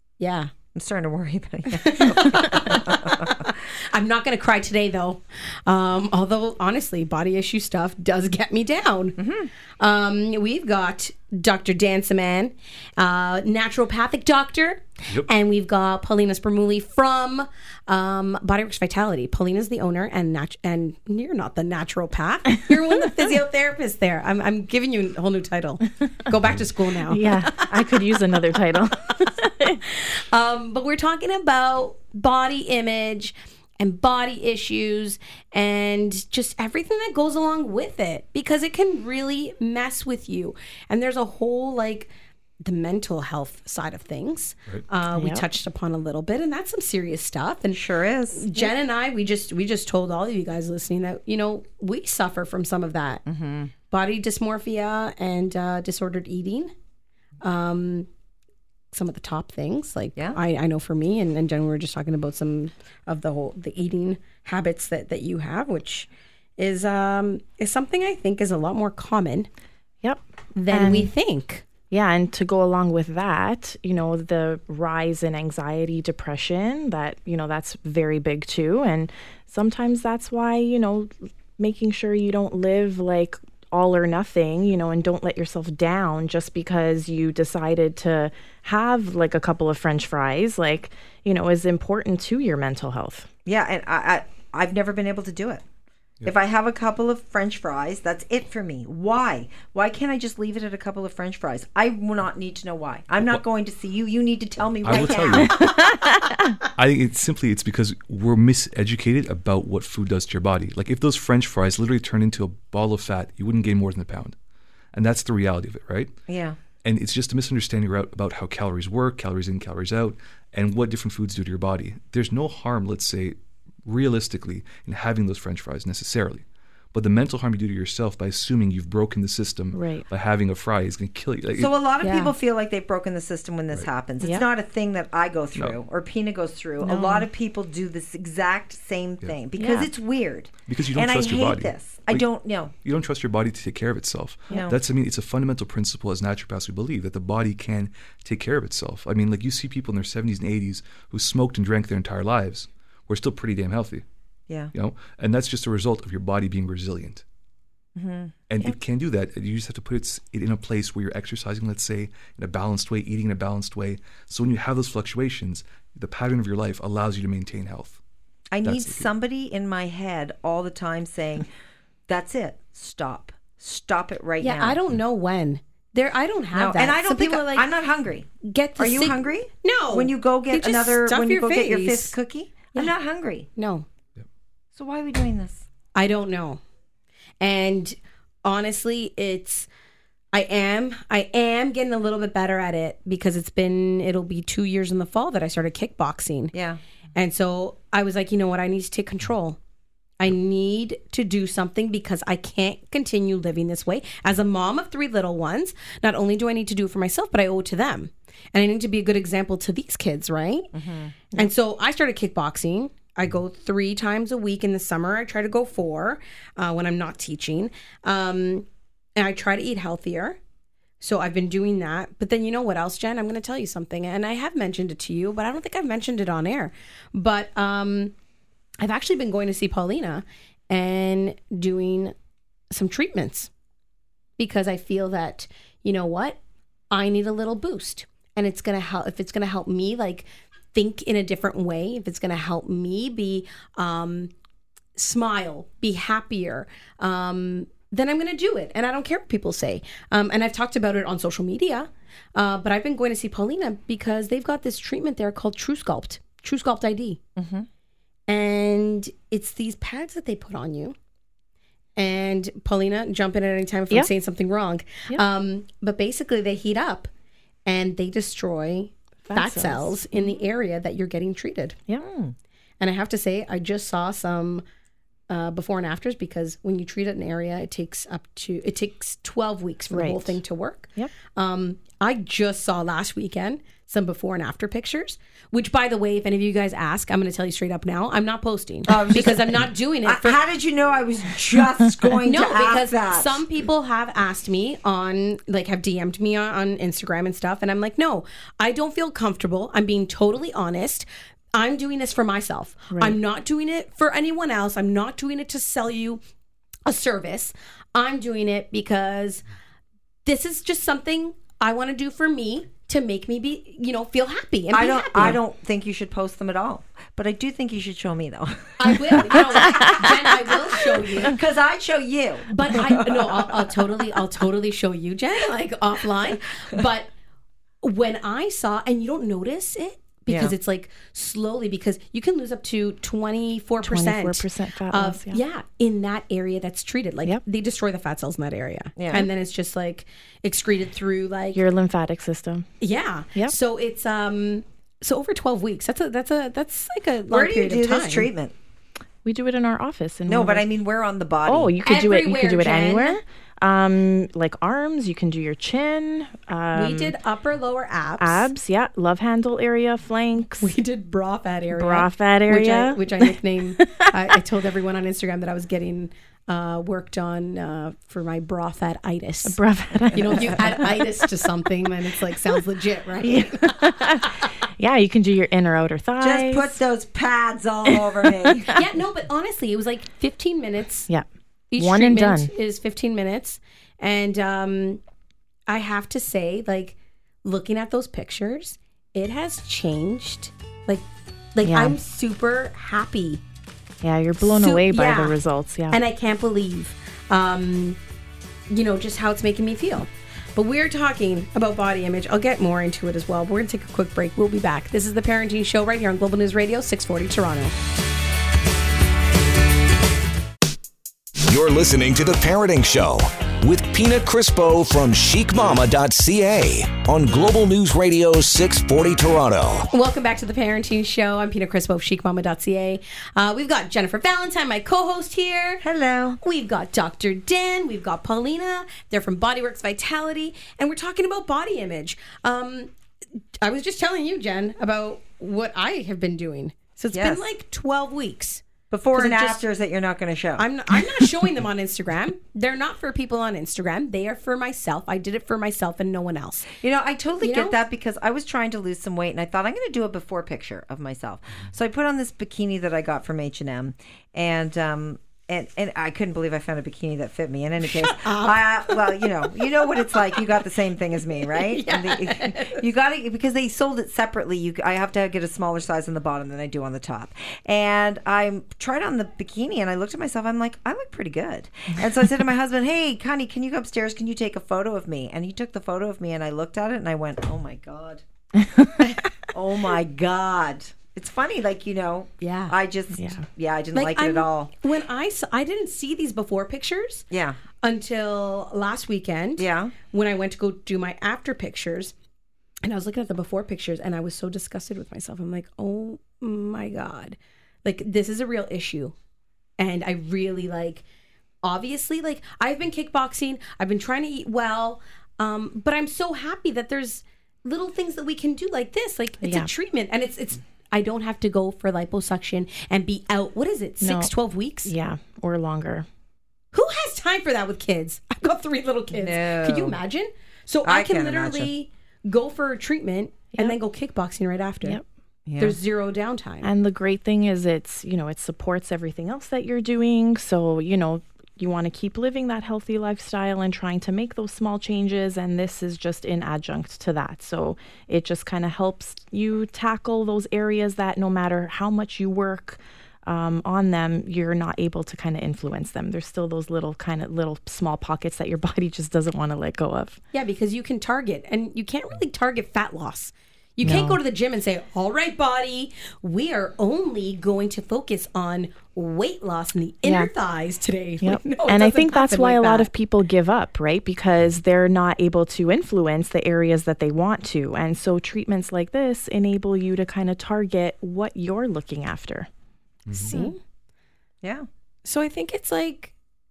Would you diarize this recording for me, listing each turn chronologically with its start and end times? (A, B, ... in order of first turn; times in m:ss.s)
0:00.2-0:00.5 A
0:00.8-0:03.5 B
0:01.7-0:09.2 A
0:09.2-0:09.5 B
0:09.8-0:27.7 A
0:27.1-0:29.8 C
0:29.9-0:47.8 A
0:45.1-0:45.4 C
0:47.7-0:48.7 B
0:48.3-0:53.2 A
0:53.3-0:53.7 B
0:53.9-0:56.7 A
0:57.4-0:58.1 A
0:58.9-1:09.5 A
1:10.0-1:11.1 C
1:10.6-1:11.6 A
1:11.9-1:33.3 C
1:33.5-1:35.6 B
1:36.2-1:45.8 B
1:44.8-1:45.7 D
1:45.5-1:45.9 C
1:46.8-1:54.4 D
1:54.9-1:56.1 D
1:56.3-1:56.6 B
1:56.8-2:11.7 D
2:09.7-2:10.0 C
2:11.6-2:22.7 B
2:12.0-2:12.3 A
2:16.8-2:17.3 C
2:19.6-2:19.9 C
2:20.7-2:22.3 D
2:22.8-2:34.0 D
2:24.5-2:24.8 B
2:34.7-2:37.2 D
2:38.0-2:38.4 B
2:38.5-2:48.0 D
2:48.5-2:51.5 B
2:48.6-2:49.1 D
2:52.1-2:54.8 B
2:54.4-2:57.7 A
2:56.5-3:03.5 B
2:58.4-3:02.2 A
3:03.6-3:03.9 A
3:04.7-3:05.7 B
3:06.0-3:06.6 A
3:07.4-3:09.7 A
3:10.3-3:16.5 A
3:16.5-3:16.8 B
3:17.2-3:19.6 A
3:20.2-3:30.7 A
3:30.7-3:31.4 B
3:31.3-3:40.4 A
3:41.0-3:48.1 A
3:48.8-3:52.1 A
3:52.7-3:53.5 A
3:54.4-3:56.4 A
3:56.9-4:04.3 A
4:05.0-4:17.2 A
4:17.4-4:17.7 B
4:18.3-4:21.0 A
4:22.0-4:27.1 A
4:27.7-4:31.8 A
4:29.2-4:30.4 C
4:32.0-4:32.3 B
4:32.8-4:34.6 A
4:35.3-4:50.4 A
4:39.9-4:40.4 C
4:48.9-4:53.4 B
4:52.2-5:06.2 A
5:06.9-5:09.4 A
5:10.2-5:15.4 A
5:14.7-5:24.2 B
5:18.8-5:21.4 A
5:22.5-5:27.1 A
5:27.8-5:41.6 A
5:30.3-5:30.5 B
5:33.8-5:35.4 C
5:39.0-5:39.3 B
5:41.6-5:42.7 C
5:42.8-5:48.3 A
5:47.3-5:48.5 B
5:49.2-5:50.6 C
5:50.3-5:51.8 B
5:51.5-5:57.1 C
5:51.9-5:53.2 A
5:56.7-5:58.5 A
5:58.2-6:00.7 C
6:00.6-6:09.6 A
6:01.8-6:03.0 C
6:03.8-6:04.1 C
6:09.4-6:11.2 C
6:10.1-6:13.9 A
6:13.2-6:16.8 C
6:16.2-6:18.8 B
6:18.5-6:18.8 C
6:18.7-6:21.1 A
6:21.7-6:25.0 A
6:21.8-6:22.5 C
6:25.7-6:31.0 A
6:31.6-6:33.4 A
6:31.6-6:32.0 C
6:34.0-6:36.0 C
6:34.4-6:35.4 A
6:35.9-6:38.0 A
6:38.7-6:47.8 A
6:51.5-6:59.9 E
6:59.9-7:05.8 A
7:05.8-7:06.4 B
7:06.4-7:12.9 A
7:13.6-7:19.6 A
7:17.1-7:17.5 B
7:18.9-7:20.7 B
7:20.6-7:26.7 A
7:26.7-7:58.2 B
7:27.4-7:27.8 A
7:37.9-7:39.7 A
7:41.4-7:42.8 A
7:58.8-8:04.7 B
8:02.4-8:02.8 A
8:03.2-8:03.4 C
8:03.9-8:07.3 A
8:07.3-8:07.6 B
8:07.8-8:12.1 A
8:09.6-8:09.9 B
8:12.8-8:19.2 A
8:19.8-8:21.0 A
8:21.6-8:34.9 A
8:29.4-8:29.7 C
8:34.0-8:34.3 C
8:34.8-8:36.1 C
8:36.7-8:45.0 A
8:39.2-8:40.0 B
8:40.8-8:41.7 B
8:45.5-8:45.8 B
8:45.6-8:46.7 A
8:46.6-9:10.2 C
9:10.3-9:22.9 A
9:13.8-9:14.2 C
9:20.0-9:20.3 C
9:21.2-9:32.5 C
9:33.2-9:33.6 A
9:34.4-9:34.7 B
9:35.0-9:36.1 A